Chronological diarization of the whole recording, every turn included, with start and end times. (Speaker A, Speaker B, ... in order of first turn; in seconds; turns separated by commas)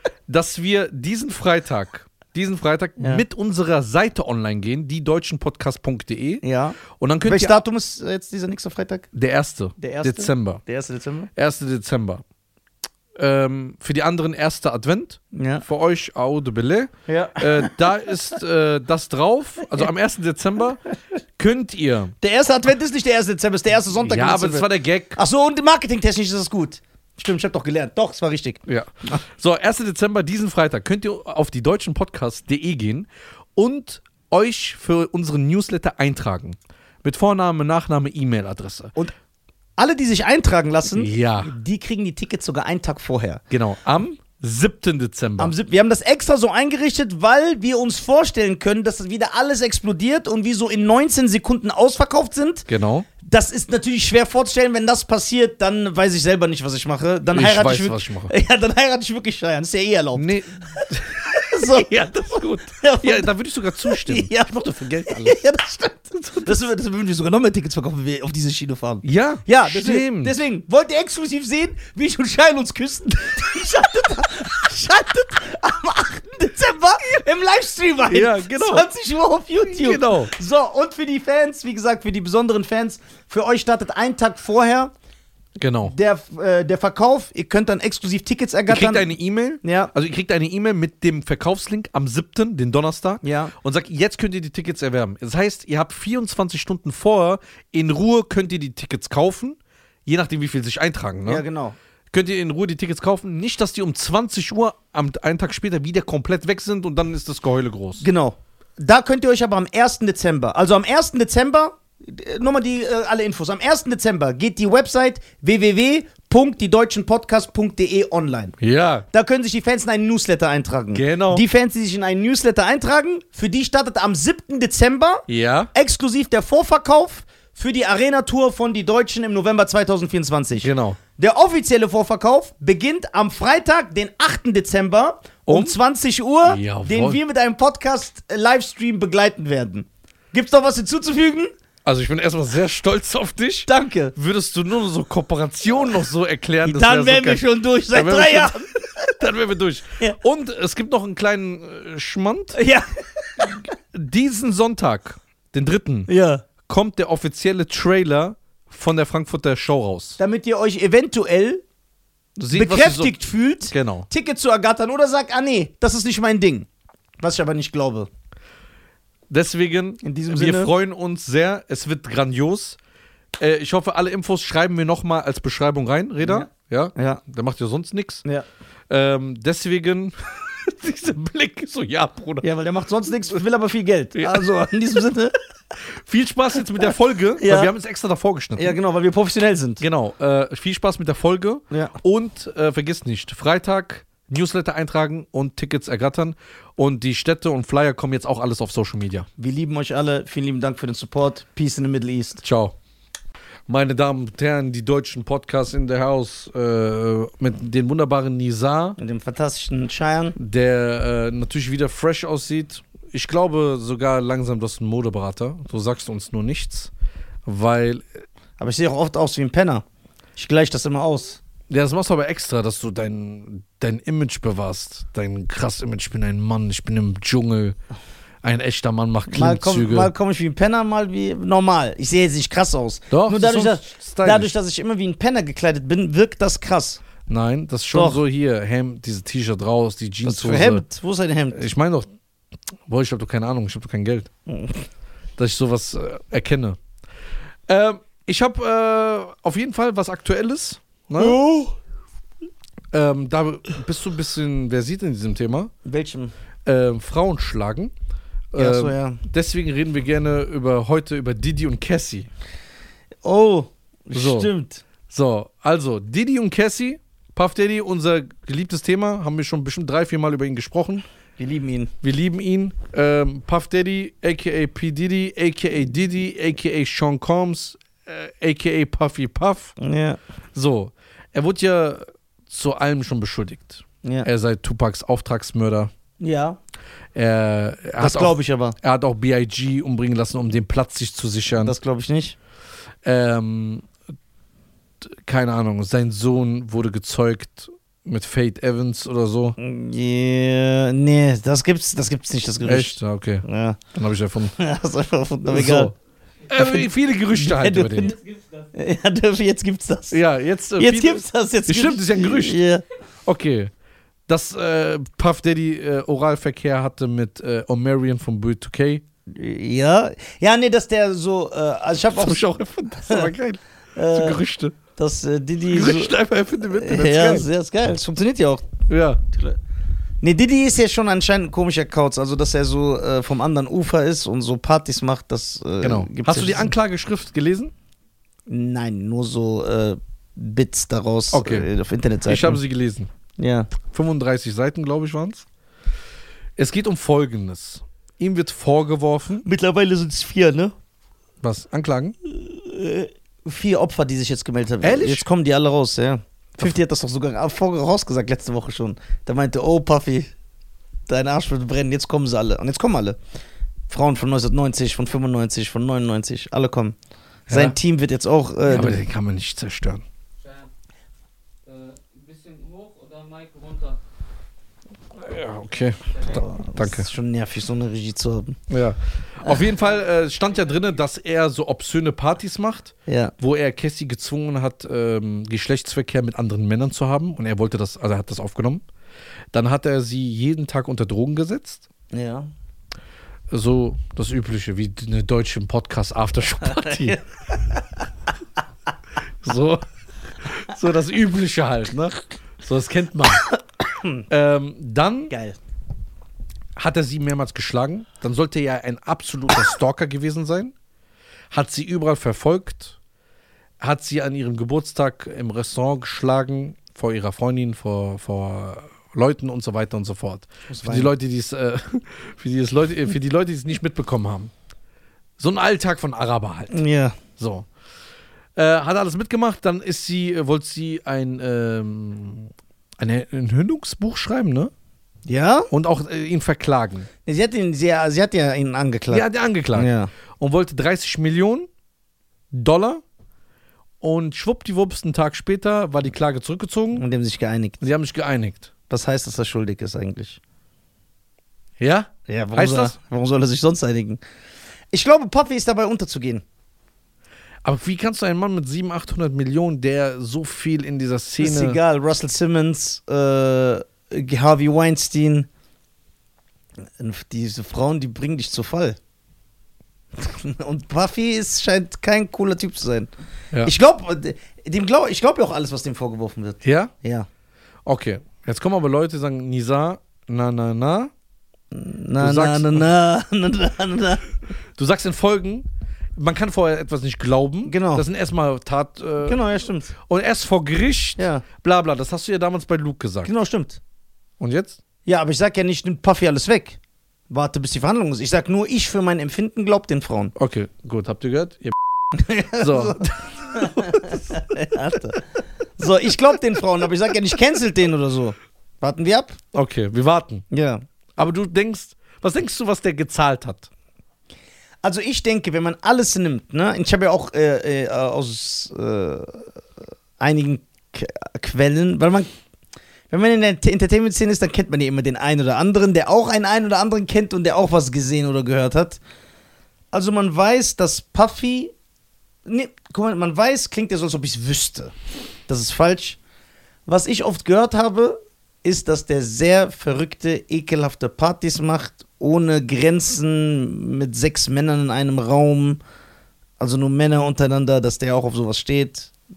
Speaker A: 0.3-7.6, Speaker B: 3.0-3.2, Speaker B: 6.4-9.1, Speaker A: 9.1-10.6, Speaker B: 9.8-11.3, Speaker A: 11.3-12.2, Speaker A: 13.2-20.8, Speaker B: 15.3-15.6, Speaker B: 17.1-17.8, Speaker A: 21.4-22.1, Speaker B: 22.2-29.2, Speaker A: 23.9-25.2, Speaker A: 28.7-38.9, Speaker B: 39.8-43.4, Speaker A: 40.9-41.5, Speaker A: 43.5-45.5, Speaker B: 45.4-52.7, Speaker A: 52.7-53.1, Speaker B: 53.2-84.9, Speaker A: 57.3-58.3, Speaker A: 60.1-65.4, Speaker A: 66.2-66.5, Speaker A: 69.0-70.3, Speaker A: 78.1-78.8, Speaker A: 79.7-80.3, Speaker A: 85.6-85.9, Speaker B: 85.9-89.1, Speaker A: 88.7-101.4, Speaker B: 89.6-89.9, Speaker B: 93.2-93.5, Speaker B: 101.2-101.8, Speaker A: 102.1-108.0, Speaker B: 108.0-118.6, Speaker A: 118.6-119.1, Speaker B: 119.1-141.5, Speaker A: 120.9-121.4, Speaker A: 125.3-125.7, Speaker A: 130.6-131.0, Speaker A: 135.5-135.8, Speaker A: 136.4-137.2, Speaker A: 141.8-152.6, Speaker B: 143.7-144.1, Speaker B: 146.6-149.1, Speaker B: 152.5-153.6, Speaker A: 153.4-156.1, Speaker B: 156.1-156.4, Speaker A: 156.6-160.2, Speaker B: 160.2-161.6, Speaker A: 162.4-163.1, Speaker B: 162.5-166.7, Speaker A: 163.7-164.1, Speaker B: 167.2-168.1, Speaker A: 169.3-172.8, Speaker B: 170.0-170.7, Speaker A: 173.4-178.2, Speaker B: 176.2-177.2, Speaker A: 178.9-182.4, Speaker B: 182.4-185.3, Speaker A: 184.1-184.4, Speaker A: 185.8-188.8, Speaker B: 187.4-187.7, Speaker B: 188.6-189.8, Speaker A: 189.8-199.3, Speaker B: 199.4-202.4, Speaker A: 202.4-202.8, Speaker A: 203.7-209.0, Speaker B: 209.0-210.3, Speaker A: 210.4-216.9, Speaker A: 217.4-218.2, Speaker B: 218.6-219.8, Speaker B: 220.4-221.4, Speaker A: 221.7-227.8, Speaker A: 228.4-230.1, Speaker B: 229.3-237.0, Speaker A: 233.1-234.5, Speaker A: 237.2-240.8, Speaker B: 237.9-238.2, Speaker B: 240.2-241.6, Speaker A: 241.5-242.1, Speaker A: 242.8-244.3, Speaker B: 244.5-244.8, Speaker A: 245.4-246.8, Speaker A: 247.7-251.4, Speaker B: 251.2-251.8, Speaker A: 252.9-255.7, Speaker B: 255.8-256.3, Speaker A: 256.6-257.9, Speaker A: 258.5-262.3, Speaker B: 258.6-259.2, Speaker B: 263.2-264.8, Speaker A: 264.1-264.5, Speaker A: 265.1-271.0, Speaker B: 271.4-271.9, Speaker A: 272.0-279.7, Speaker B: 279.8-280.2, Speaker A: 280.5-285.9, Speaker B: 284.0-284.3, Speaker B: 286.2-286.6, Speaker A: 287.1-291.7, Speaker B: 288.0-288.8, Speaker B: 291.6-292.4, Speaker A: 293.0-293.9, Speaker A: 295.0-299.6, Speaker B: 299.6-303.8, Speaker A: 302.6-304.6, Speaker B: 304.6-305.9, Speaker A: 305.5-305.9, Speaker A: 306.5-308.1, Speaker B: 306.5-308.1, Speaker C: 307.9-308.7, Speaker B: 308.7-310.2, Speaker A: 310.1-312.6, Speaker B: 310.8-312.8, Speaker A: 313.2-313.7, Speaker A: 314.3-319.0, Speaker B: 319.3-322.4, Speaker A: 322.1-324.8, Speaker B: 323.0-323.3, Speaker B: 323.9-324.4, Speaker B: 325.0-326.1, Speaker A: 325.7-327.5, Speaker B: 326.7-328.7, Speaker A: 328.9-329.2, Speaker B: 329.3-329.6, Speaker B: 330.2-336.7, Speaker A: 335.8-337.7, Speaker B: 338.5-342.6, Speaker A: 341.3-341.7, Speaker A: 342.3-343.1, Speaker B: 343.4-343.7, Speaker A: 343.8-345.4, Speaker A: 346.6-349.4, Speaker B: 349.4-350.7, Speaker A: 351.4-352.2, Speaker B: 352.3-360.3, Speaker A: 354.8-355.3, Speaker B: 361.1-363.2, Speaker B: 363.9-366.9, Speaker A: 367.5-367.8, Speaker B: 367.5-369.0, Speaker A: 368.7-370.0, Speaker C: 370.4-370.7, Speaker C: 371.6-374.0, Speaker A: 375.1-377.1, Speaker C: 376.1-376.4, Speaker B: 376.3-378.6, Speaker A: 378.7-388.8, Speaker C: 379.8-380.9, Speaker B: 383.1-383.3, Speaker A: 389.5-391.8, Speaker B: 392.1-392.5, Speaker A: 393.5-397.2, Speaker B: 396.8-397.8, Speaker A: 399.4-399.8, Speaker A: 400.4-403.4, Speaker B: 403.4-404.2, Speaker A: 404.3-405.3, Speaker B: 405.3-405.6, Speaker A: 406.8-410.7, Speaker A: 411.5-413.0, Speaker A: 413.8-424.5, Speaker B: 420.7-421.1, Speaker A: 425.4-426.8, Speaker B: 426.7-427.2, Speaker A: 427.4-427.6, Speaker A: 428.5-434.7, Speaker B: 435.2-435.7, Speaker A: 435.7-437.1, Speaker B: 437.2-440.1, Speaker A: 439.1-441.7, Speaker A: 442.5-443.0, Speaker A: 444.0-447.0, Speaker B: 446.9-447.8, Speaker A: 447.8-448.7, Speaker B: 448.9-450.4, Speaker A: 451.8-452.9, Speaker B: 452.3-454.2, Speaker B: 454.9-456.4, Speaker A: 457.6-461.8, Speaker B: 461.4-465.5, Speaker B: 467.0-469.0, Speaker B: 470.1-473.1, Speaker B: 473.6-477.3, Speaker A: 476.6-476.9, Speaker A: 477.8-481.1, Speaker B: 481.7-484.3, Speaker A: 482.2-482.9, Speaker A: 484.8-489.4, Speaker B: 487.6-488.0, Speaker B: 489.2-489.9, Speaker A: 490.0-493.3, Speaker B: 491.2-491.4, Speaker B: 493.2-493.8, Speaker A: 494.4-494.8, Speaker B: 495.0-496.8, Speaker B: 497.3-500.3, Speaker A: 500.4-501.7, Speaker B: 502.1-505.3, Speaker A: 502.5-504.4, Speaker B: 505.8-509.4, Speaker A: 509.5-510.4, Speaker B: 510.5-510.8, Speaker A: 511.2-513.7, Speaker B: 514.8-519.6, Speaker B: 520.2-522.3, Speaker B: 523.1-529.0, Speaker B: 529.9-531.7, Speaker B: 532.5-534.9, Speaker B: 535.5-536.2, Speaker B: 536.9-545.8, Speaker B: 546.6-549.1